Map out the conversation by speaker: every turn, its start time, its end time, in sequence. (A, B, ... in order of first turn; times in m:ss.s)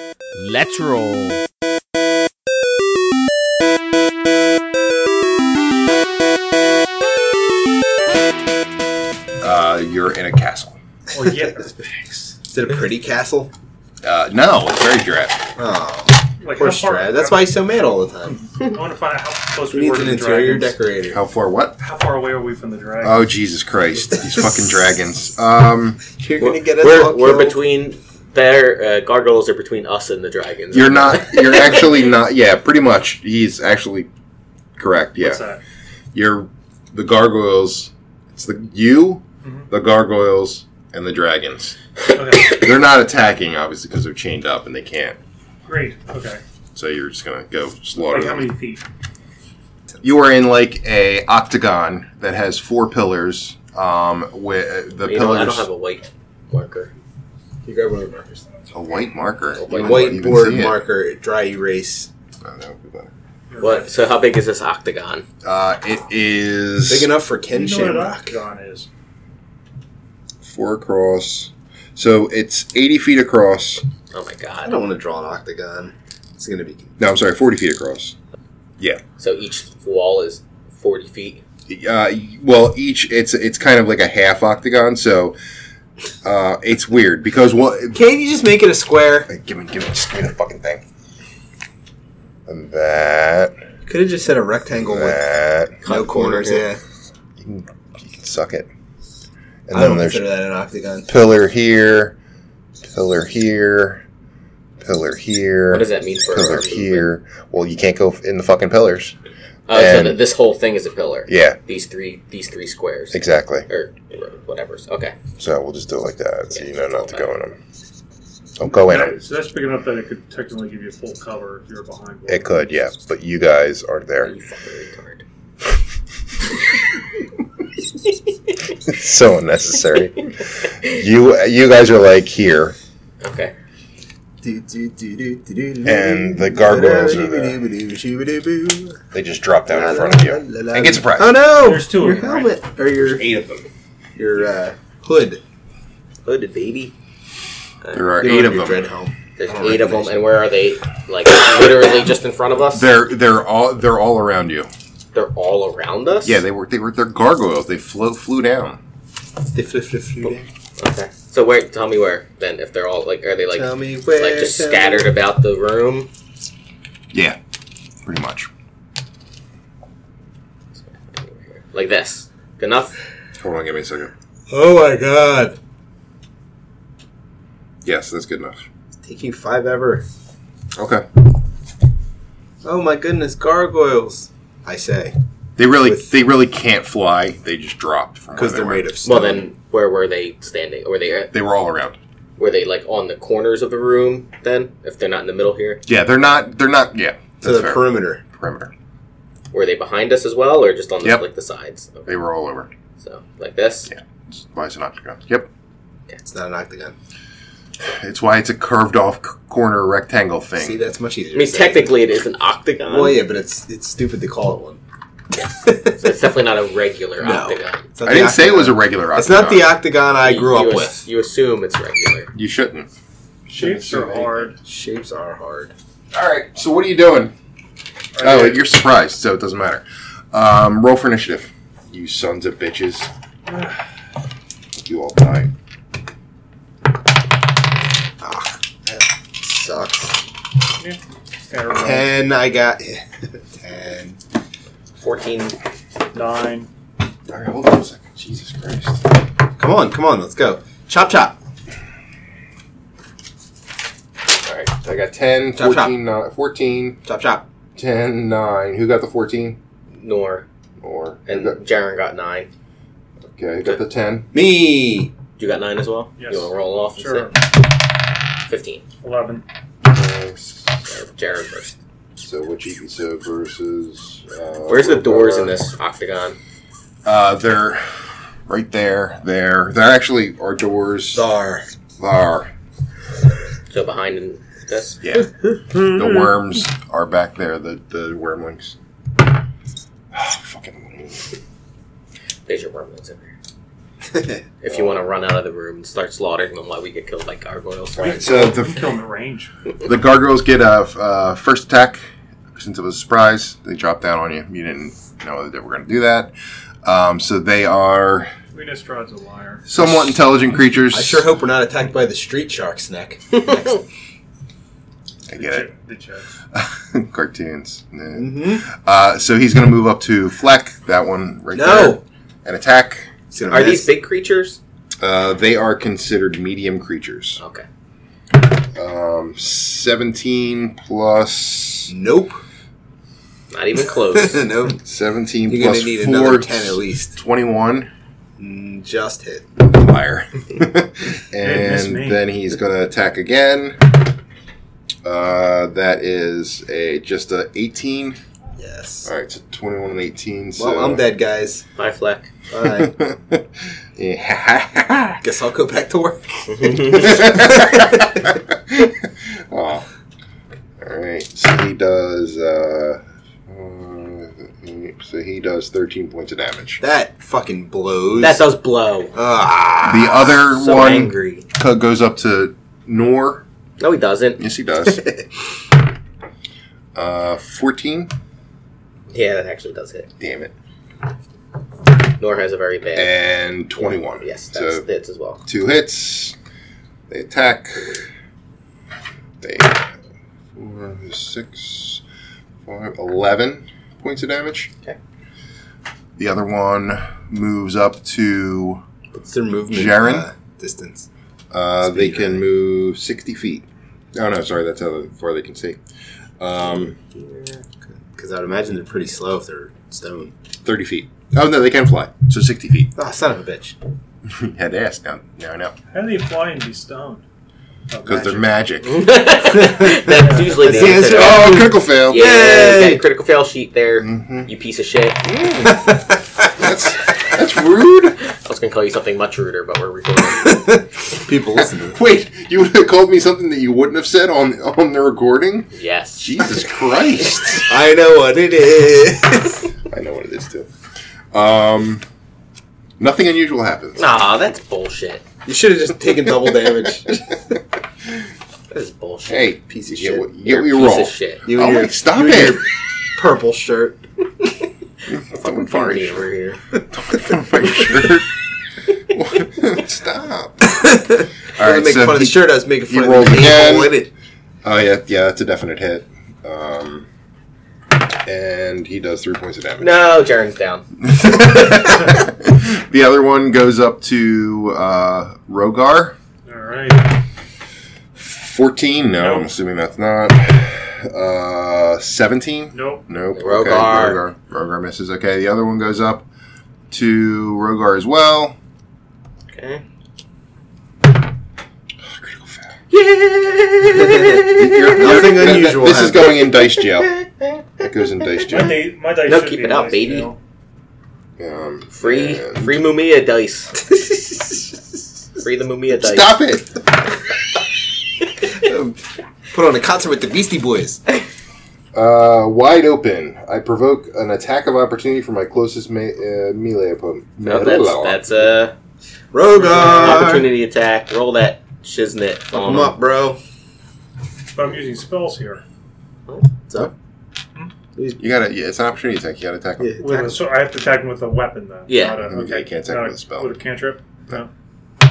0:00.4-0:01.4 A
0:09.4-0:10.8 B
0:11.1-0:12.3 C
0:12.4-0:13.5 D
0:14.0-0:15.4 B
0:15.6-0:18.4 D
0:16.4-0:17.5 C
0:18.5-0:20.8 C
0:19.7-0:21.2 D
0:21.1-0:21.8 B
0:21.8-0:23.3 C
0:23.0-0:26.0 B
0:26.1-0:27.6 D
0:26.4-0:31.8 A
0:30.7-0:34.1 B
0:34.8-0:35.4 B
0:35.2-0:35.6 C
0:36.1-0:41.8 B
0:42.1-0:42.6 C
0:42.5-0:45.2 B
0:45.6-0:46.4 C
0:46.7-0:48.6 B
0:48.0-0:48.8 C
0:50.0-0:55.7 B
0:55.0-0:56.9 A
0:57.6-0:58.4 D
0:58.7-1:00.8 B
0:59.6-1:00.1 A
0:59.7-1:02.1 D
1:02.4-1:03.1 B
1:03.5-1:03.9 C
1:03.6-1:05.2 A
1:05.4-1:07.1 B
1:06.9-1:08.4 D
1:07.5-1:08.9 C
1:10.4-1:13.8 B
1:14.1-1:14.8 A
1:14.6-1:16.9 D
1:17.0-1:18.1 B
1:19.2-1:21.4 A
1:21.7-1:25.4 B
1:26.2-1:28.0 B
1:27.9-1:29.3 D
1:29.3-1:30.8 B
1:32.5-1:33.6 B
1:33.8-1:35.2 D
1:34.8-1:35.8 B
1:35.8-1:36.7 A
1:35.8-1:36.8 D
1:37.4-1:38.7 B
1:39.7-1:40.2 B
1:39.7-1:41.1 D
1:41.1-1:42.1 B
1:42.8-1:44.0 B
1:44.8-1:49.2 B
1:45.7-1:47.1 A
1:49.7-1:55.2 A
1:49.7-1:50.2 B
1:51.3-1:51.6 B
1:53.1-1:53.7 B
1:55.4-1:57.6 B
1:56.5-1:57.3 A
1:58.6-1:59.2 B
1:58.9-2:02.5 C
2:02.3-2:04.3 B
2:04.2-2:05.2 A
2:08.8-2:12.8 B
2:13.2-2:13.5 A
2:14.4-2:19.0 D
2:15.8-2:17.6 B
2:19.1-2:21.4 B
2:19.7-2:23.2 D
2:21.4-2:22.6 C
2:23.0-2:23.7 B
2:24.2-2:25.4 D
2:26.2-2:26.9 A
2:27.9-2:28.9 B
2:28.2-2:30.2 D
2:29.4-2:32.8 A
2:32.7-2:34.7 B
2:35.1-2:36.4 A
2:36.2-2:38.8 B
2:39.5-2:40.4 D
2:40.8-2:46.1 A
2:43.5-2:45.1 D
2:47.1-2:47.4 B
2:48.1-2:48.5 B
2:51.1-2:52.9 A
2:53.4-2:54.1 B
2:54.5-2:55.6 D
2:57.8-2:58.6 B
2:59.0-3:00.0 D
3:00.8-3:01.0 B
3:02.6-3:05.2 D
3:05.6-3:08.9 B
3:08.3-3:09.5 D
3:09.0-3:11.3 A
3:11.3-3:12.0 B
3:12.4-3:15.8 A
3:15.9-3:18.7 B
3:17.4-3:18.2 D
3:19.5-3:22.2 A
3:22.1-3:22.7 B
3:23.0-3:23.9 A
3:23.9-3:25.5 B
3:26.2-3:26.9 D
3:27.8-3:30.8 B
3:30.6-3:31.9 D
3:31.3-3:33.2 A
3:32.9-3:34.8 D
3:35.4-3:37.8 A
3:35.6-3:36.0 D
3:37.2-3:41.0 D
3:38.0-3:39.8 B
3:40.2-3:42.3 A
3:42.3-3:42.9 B
3:43.5-3:44.5 B
3:43.5-3:44.5 C
3:44.6-3:45.7 D
3:46.1-3:47.3 B
3:48.2-3:48.6 C
3:48.2-3:53.1 B
3:53.4-3:53.8 C
3:54.8-3:55.5 B
3:58.2-4:00.2 D
4:00.8-4:02.1 C
4:01.7-4:04.2 D
4:05.0-4:05.6 A
4:06.1-4:06.7 C
4:07.3-4:09.1 B
4:09.6-4:11.3 D
4:14.4-4:17.0 B
4:15.5-4:16.0 D
4:17.0-4:17.4 D
4:17.8-4:19.6 B
4:20.0-4:20.4 A
4:20.8-4:21.6 B
4:21.3-4:22.5 A
4:23.3-4:24.3 B
4:24.3-4:25.1 D
4:25.4-4:27.3 A
4:26.2-4:27.3 C
4:28.5-4:28.8 A
4:29.0-4:29.4 C
4:29.8-4:30.7 B
4:30.9-4:31.8 A
4:32.2-4:35.6 B
4:34.7-4:36.4 A
4:37.0-4:41.3 B
4:41.1-4:41.7 D
4:42.0-4:42.5 B
4:43.7-4:45.0 A
4:45.0-4:48.8 B
4:50.1-4:51.3 B
4:52.5-4:53.3 A
4:54.1-4:54.4 D
4:54.6-4:58.5 A
4:58.0-4:59.5 C
4:58.2-4:58.9 B
4:59.9-5:02.0 B
5:02.5-5:06.3 B
5:06.8-5:08.3 B
5:08.5-5:09.7 C
5:09.7-5:11.3 B
5:10.9-5:13.8 D
5:15.3-5:15.7 B
5:15.3-5:16.3 C
5:16.5-5:23.1 B
5:18.2-5:18.6 D
5:21.5-5:22.0 D
5:23.3-5:23.9 D
5:23.5-5:24.6 A
5:25.0-5:27.4 B
5:27.4-5:27.7 A
5:28.8-5:31.9 B
5:31.9-5:32.4 D
5:33.5-5:34.5 A
5:34.1-5:34.8 D
5:34.8-5:37.9 B
5:35.5-5:37.2 D
5:38.4-5:39.5 D
5:39.6-5:43.8 B
5:41.4-5:42.2 C
5:45.0-5:48.2 B
5:48.6-5:49.1 D
5:49.0-5:51.0 B
5:50.6-5:51.6 D
5:51.8-5:52.3 A
5:52.5-5:52.9 D
5:52.6-5:55.2 B
5:55.2-5:58.0 D
5:56.5-5:57.3 A
5:56.9-5:59.9 B
6:00.8-6:06.8 B
6:06.8-6:08.5 D
6:08.2-6:09.1 A
6:09.1-6:10.4 D
6:09.8-6:13.4 B
6:10.5-6:11.4 A
6:13.8-6:14.4 A
6:14.4-6:15.1 B
6:17.0-6:18.1 B
6:19.1-6:20.1 A
6:20.2-6:20.5 B
6:22.2-6:23.1 A
6:23.0-6:24.8 B
6:23.8-6:25.4 A
6:25.4-6:26.4 B
6:27.1-6:28.1 B
6:29.4-6:29.9 B
6:30.6-6:32.0 B
6:32.7-6:34.7 B
6:36.2-6:38.8 B
6:39.1-6:41.1 D
6:39.7-6:40.3 B
6:41.5-6:45.8 B
6:41.8-6:42.5 D
6:46.4-6:47.0 B
6:47.1-6:50.3 D
6:50.6-6:52.9 B
6:53.0-6:53.8 D
6:54.3-6:55.8 B
6:55.9-6:57.2 C
6:57.9-6:58.5 C
6:58.0-6:59.0 B
6:58.8-7:05.2 A
6:59.5-7:03.0 D
7:00.1-7:00.6 C
7:00.9-7:02.4 B
7:04.0-7:04.5 B
7:05.2-7:05.8 B
7:05.6-7:06.5 D
7:06.6-7:08.2 B
7:08.2-7:10.7 A
7:10.4-7:12.0 D
7:11.6-7:17.7 B
7:15.7-7:16.3 A
7:17.6-7:19.7 D
7:19.9-7:20.7 B
7:21.3-7:22.0 B
7:23.0-7:24.0 B
7:24.0-7:25.2 A
7:25.4-7:27.4 D
7:28.7-7:29.5 A
7:29.3-7:32.6 B
7:29.7-7:30.3 D
7:30.5-7:31.4 A
7:31.4-7:34.0 D
7:35.1-7:36.2 B
7:35.3-7:36.6 A
7:36.9-7:38.3 B
7:39.0-7:40.8 B
7:40.7-7:44.1 D
7:41.6-7:44.0 B
7:44.6-7:47.1 B
7:48.2-7:50.1 B
7:49.8-7:50.9 A
7:51.0-7:56.2 B
7:56.5-7:57.2 C
7:58.2-8:06.2 B
7:59.2-7:59.5 C
8:02.7-8:03.0 C
8:03.3-8:04.2 A
8:06.9-8:08.6 B
8:09.5-8:09.8 A
8:12.0-8:12.7 B
8:12.9-8:15.7 A
8:14.0-8:14.4 D
8:14.5-8:17.1 B
8:14.9-8:16.3 D
8:16.6-8:17.6 A
8:17.8-8:18.8 B
8:18.5-8:20.4 C
8:19.2-8:20.3 A
8:21.4-8:22.8 B
8:21.9-8:23.8 A
8:25.4-8:26.4 A
8:26.0-8:26.7 B
8:28.6-8:28.9 D
8:29.5-8:31.0 D
8:31.9-8:38.2 B
8:37.4-8:38.7 A
8:39.3-8:40.5 D
8:39.5-8:40.3 C
8:39.6-8:43.0 A
8:42.5-8:43.4 D
8:44.5-8:45.6 C
8:48.0-8:48.2 D
8:48.2-8:49.9 B
8:49.8-8:50.4 D
8:50.0-8:54.5 C
8:51.9-8:52.2 A
8:52.2-8:53.5 B